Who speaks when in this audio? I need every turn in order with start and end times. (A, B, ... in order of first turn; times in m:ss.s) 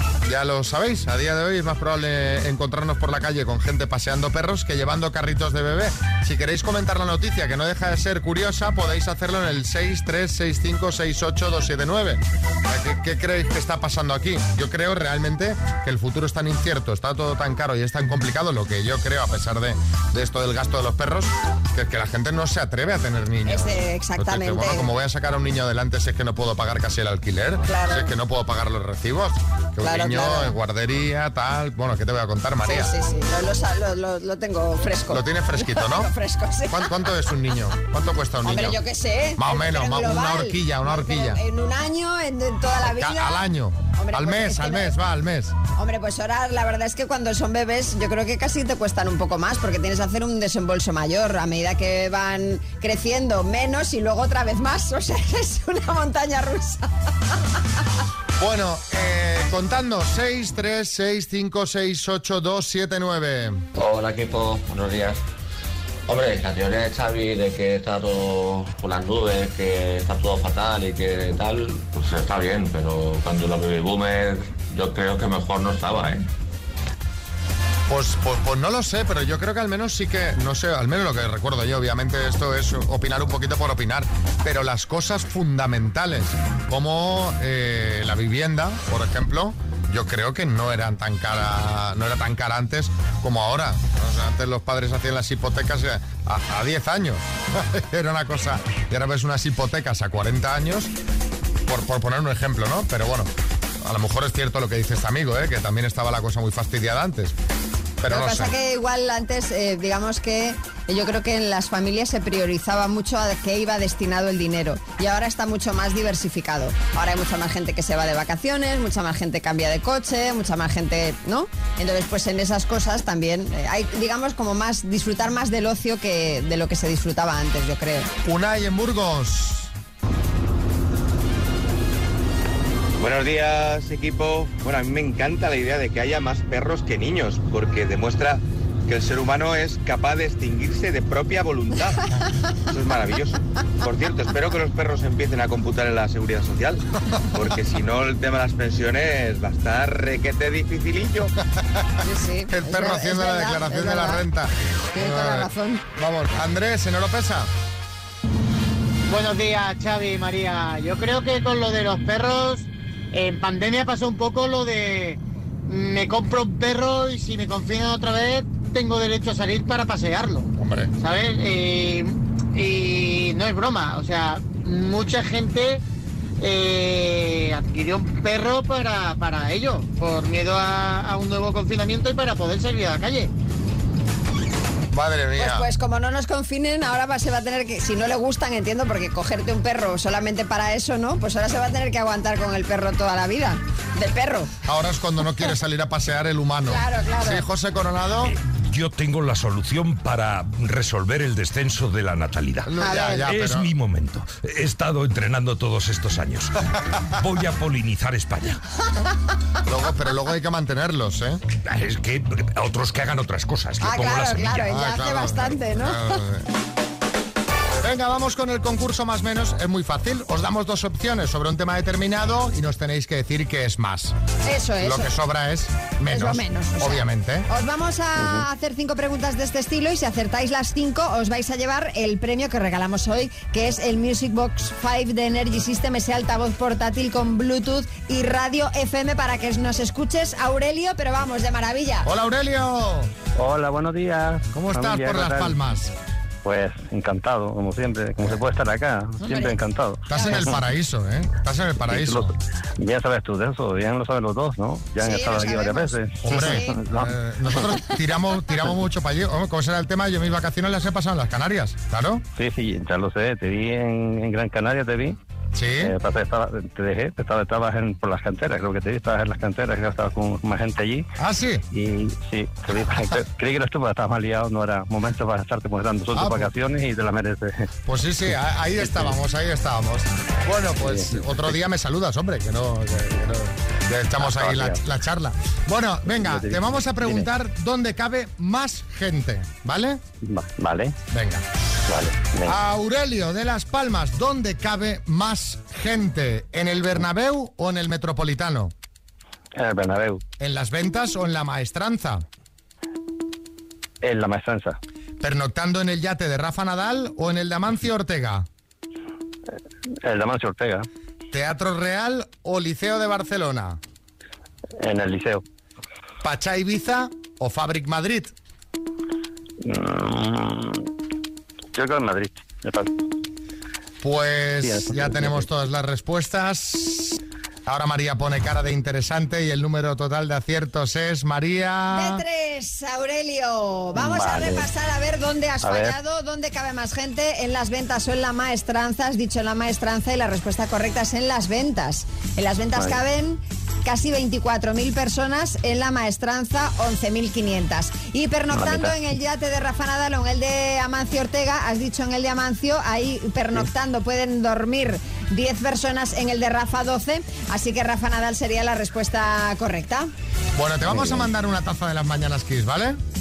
0:00.2-0:32.9 A
0:23.4-0:24.9 B
0:27.7-0:28.1 B
0:29.8-0:30.5 B
0:32.6-0:36.9 B
0:35.1-0:36.1 A
0:36.7-0:38.8 A
0:38.4-0:43.4 B
0:39.4-0:41.4 A
0:42.8-0:45.6 A
0:44.0-0:44.9 B
0:45.8-0:56.9 B
0:58.4-1:03.6 A
1:03.8-1:05.2 C
1:06.1-1:16.3 C
1:17.9-1:40.9 A
1:41.7-1:47.3 A
1:48.0-1:48.5 A
1:48.1-2:08.1 B
2:08.2-2:09.7 A
2:13.0-2:22.1 D
2:22.7-2:31.3 D
2:31.6-2:31.8 A
2:32.0-2:34.2 B
2:32.5-2:37.5 A
2:34.9-2:35.8 B
2:39.1-2:55.8 E
2:50.6-2:50.9 A
2:56.4-3:03.3 E
3:04.9-3:05.7 A
3:05.4-3:14.5 B
3:14.6-3:18.3 A
3:16.7-3:17.4 B
3:18.2-3:22.7 F
3:22.6-3:23.7 A
3:22.8-3:23.3 B
3:23.2-3:26.6 F
3:27.1-3:28.6 F
3:29.6-3:31.4 A
3:31.6-3:34.6 F
3:33.8-3:36.0 B
3:34.6-3:36.5 A
3:37.8-3:44.1 A
3:44.4-3:45.1 B
3:44.8-3:47.5 A
3:46.1-4:02.1 B
4:02.0-4:03.1 A
4:03.4-4:05.5 G
4:04.5-4:05.9 A
4:06.4-4:10.4 G
4:09.3-4:09.5 B
4:10.1-4:12.3 A
4:11.9-4:17.1 G
4:15.0-4:16.8 B
4:16.2-4:22.2 A
4:22.4-4:25.2 G
4:25.5-4:25.9 A
4:25.8-4:31.0 G
4:31.2-4:31.6 A
4:31.7-4:37.7 G
4:36.1-4:36.5 A
4:37.8-4:50.0 A
4:40.9-4:41.2 G
4:44.2-4:44.8 G
4:46.2-4:47.2 G
4:50.2-4:51.0 G
4:51.1-4:51.4 A
4:51.9-4:52.6 G
4:52.4-4:58.7 A
4:59.5-5:00.2 G
5:00.4-5:02.2 A
5:04.0-5:04.8 G
5:05.2-5:08.5 A
5:10.0-5:10.9 G
5:11.3-5:13.8 A
5:14.8-5:15.4 G
5:16.2-5:18.3 A
5:19.6-5:20.9 G
5:21.7-5:22.9 G
5:24.0-5:32.2 A
5:24.6-5:25.4 G
5:31.9-6:00.1 B
5:34.0-5:34.7 G
5:35.6-5:36.0 G
5:48.5-5:48.9 G
6:00.6-6:03.0 A
6:00.9-6:01.2 G